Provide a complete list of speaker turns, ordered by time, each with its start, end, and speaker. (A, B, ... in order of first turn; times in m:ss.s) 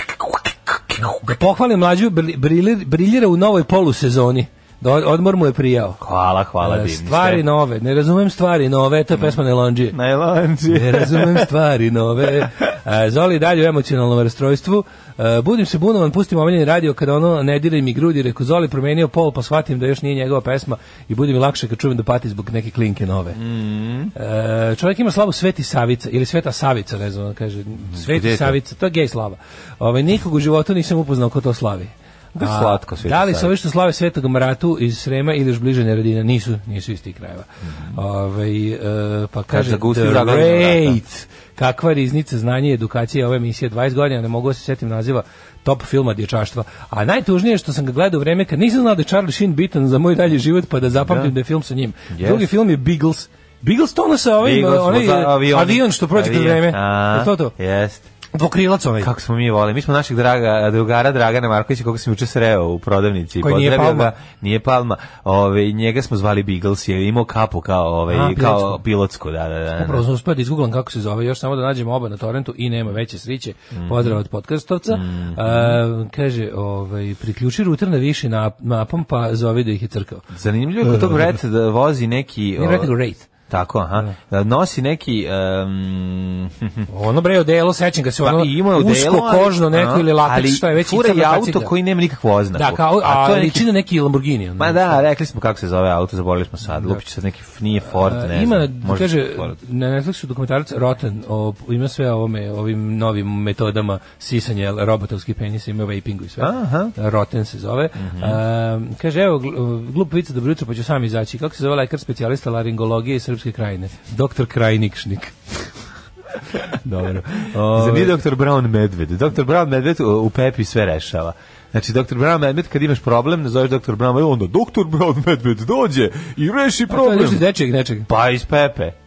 0:01.0-0:06.0 A
0:06.0-0:07.4 B
0:06.6-0:10.0 A
0:09.9-0:11.5 B
0:10.7-0:23.4 A
0:23.4-0:24.1 B
0:24.2-0:57.5 A
0:27.9-0:28.6 B
0:32.4-0:33.5 B
0:39.5-0:41.0 B
0:51.0-0:51.3 B
0:52.1-0:52.5 B
0:54.4-0:58.1 B
0:58.3-0:59.1 A
0:59.0-1:10.0 B
1:03.4-1:04.1 A
1:08.1-1:08.8 A
1:09.8-1:20.3 A
1:13.7-1:14.2 B
1:14.9-1:15.8 B
1:20.3-1:22.9 B
1:20.8-1:21.4 A
1:22.6-1:23.3 A
1:23.5-1:26.9 B
1:26.9-1:31.7 A
1:28.2-1:33.7 B
1:32.6-1:35.0 A
1:34.6-1:39.5 B
1:37.9-1:55.7 A
1:46.4-1:46.9 B
1:48.0-1:48.4 B
1:56.6-1:58.2 A
1:57.5-2:07.5 B
2:06.9-2:08.1 A
2:08.1-2:09.0 B